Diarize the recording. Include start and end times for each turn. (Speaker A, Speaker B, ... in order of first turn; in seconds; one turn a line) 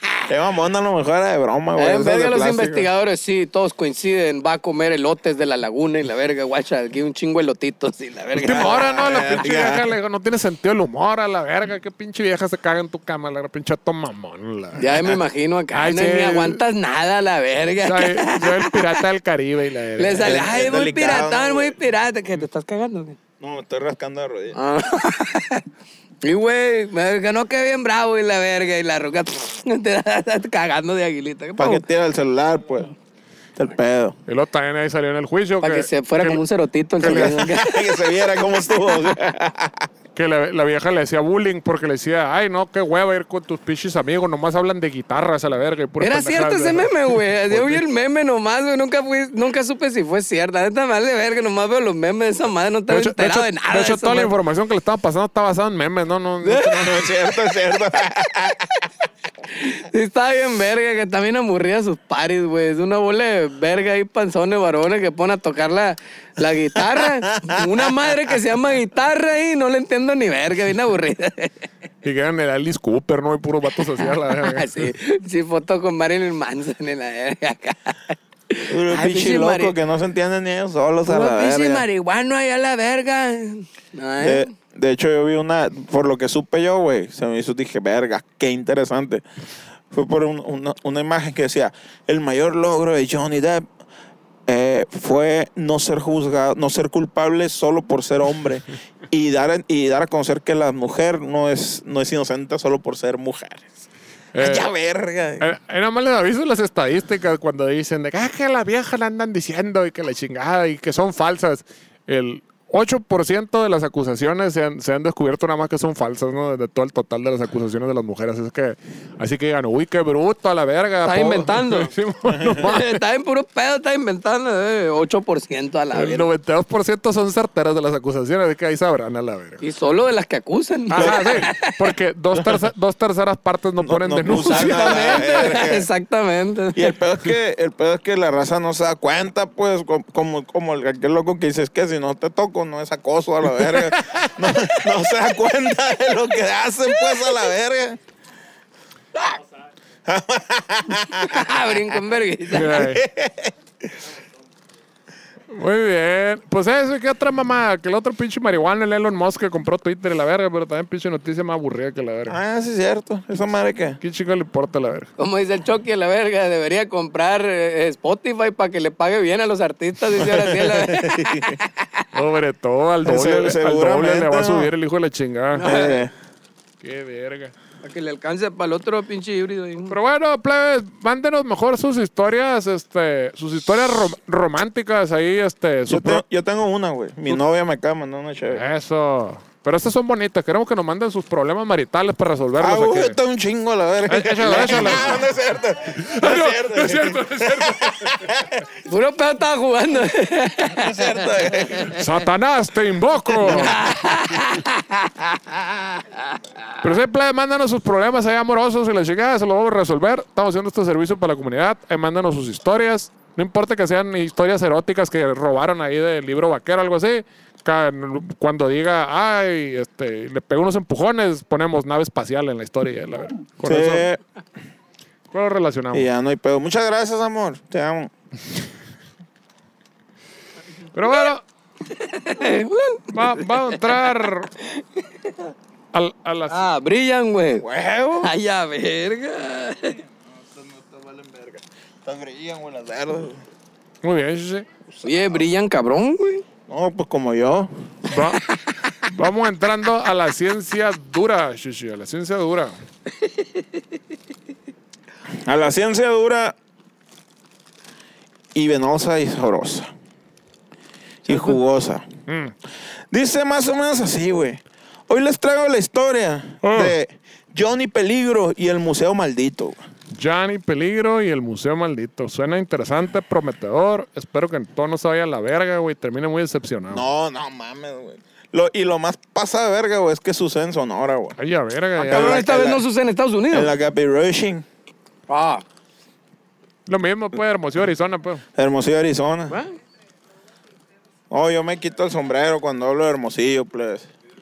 Speaker A: 0.3-2.9
Speaker B: 1.8-9.0
Speaker C: 8.4-15.2
Speaker A: 8.4-9.9
Speaker B: 14.8-19.0
Speaker C: 15.7-16.6
Speaker C: 17.8-20.5
Speaker B: 20.0-23.2
Speaker A: 20.2-21.8
Speaker A: 23.4-24.6
Speaker B: 24.5-25.6
Speaker B: 26.2-31.8
Speaker A: 31.6-32.9
Speaker A: 33.5-34.1
Speaker C: 34.3-36.4
Speaker B: 35.6-38.0
Speaker C: 37.0-37.4
Speaker A: 37.0-39.9
Speaker C: 40.1-47.8
Speaker B: 46.0-54.3
Speaker C: 52.9-57.2
Speaker A: 56.4-58.9
Speaker B: 59.5-71.7
Speaker A: 66.9-67.8
Speaker C: 72.0-74.9
Speaker B: 73.9-79.7
Speaker A: 78.7-81.8
Speaker B: 81.0-84.5
Speaker A: 84.2-89.2
Speaker A: 89.9-93.7
Speaker A: 94.5-103.7
Speaker C: 104.3-104.7
Speaker A: 104.3-105.5
Speaker C: 105.4-123.0
Speaker B: 121.0-121.9
Speaker B: 122.5-126.3
Speaker C: 125.9-129.6
Speaker B: 129.6-131.9
Speaker C: 130.9-135.5
Speaker A: 130.9-131.4
Speaker A: 132.4-132.6
Speaker A: 133.8-135.9
Speaker B: 134.4-136.9
Speaker A: 136.7-148.0
Speaker A: 150.0-151.5
Speaker B: 150.9-152.8
Speaker C: 152.5-153.0
Speaker A: 152.7-153.9
Speaker C: 155.5-162.4
Speaker A: 162.3-164.0
Speaker C: 164.0-165.1
Speaker B: 165.2-172.0
Speaker A: 170.1-171.6
Speaker C: 172.1-175.6
Speaker A: 173.0-174.7
Speaker B: 175.6-176.1
Speaker A: 175.6-176.1
Speaker C: 176.8-177.5
Speaker B: 177.8-179.9
Speaker C: 179.9-186.2
Speaker A: 185.9-188.6
Speaker C: 188.5-193.2
Speaker A: 192.6-198.7
Speaker C: 194.1-195.3
Speaker C: 196.0-198.2
Speaker B: 198.8-201.2
Speaker A: 200.7-201.9
Speaker C: 201.9-204.2
Speaker B: 203.4-205.1
Speaker C: 206.8-224.1
Speaker A: 223.6-224.2
Speaker C: 225.3-226.1
Speaker A: 225.9-228.1
Speaker C: 230.9-231.4
Speaker B: 231.9-233.8
Speaker C: 233.1-234.5
Speaker C: 235.9-236.6
Speaker B: 236.5-237.7
Speaker A: 237.6-238.3
Speaker B: 238.2-240.0
Speaker A: 240.3-243.4
Speaker C: 244.0-244.7
Speaker B: 245.0-246.4
Speaker A: 246.7-247.7
Speaker C: 248.1-248.4
Speaker C: 249.0-252.7
Speaker A: 255.4-256.5
Speaker A: 258.5-259.9
Speaker A: 261.2-262.1
Speaker B: 261.3-261.6
Speaker C: 262.3-262.5
Speaker A: 263.1-269.8
Speaker C: 266.6-266.9
Speaker C: 270.1-277.0
Speaker A: 276.9-281.4
Speaker C: 281.4-282.4
Speaker A: 282.0-282.8
Speaker B: 282.0-283.7
Speaker A: 283.5-284.6
Speaker B: 285.3-285.6
Speaker C: 286.9-288.4
Speaker A: 288.6-289.6
Speaker B: 289.5-289.7
Speaker A: 291.3-294.1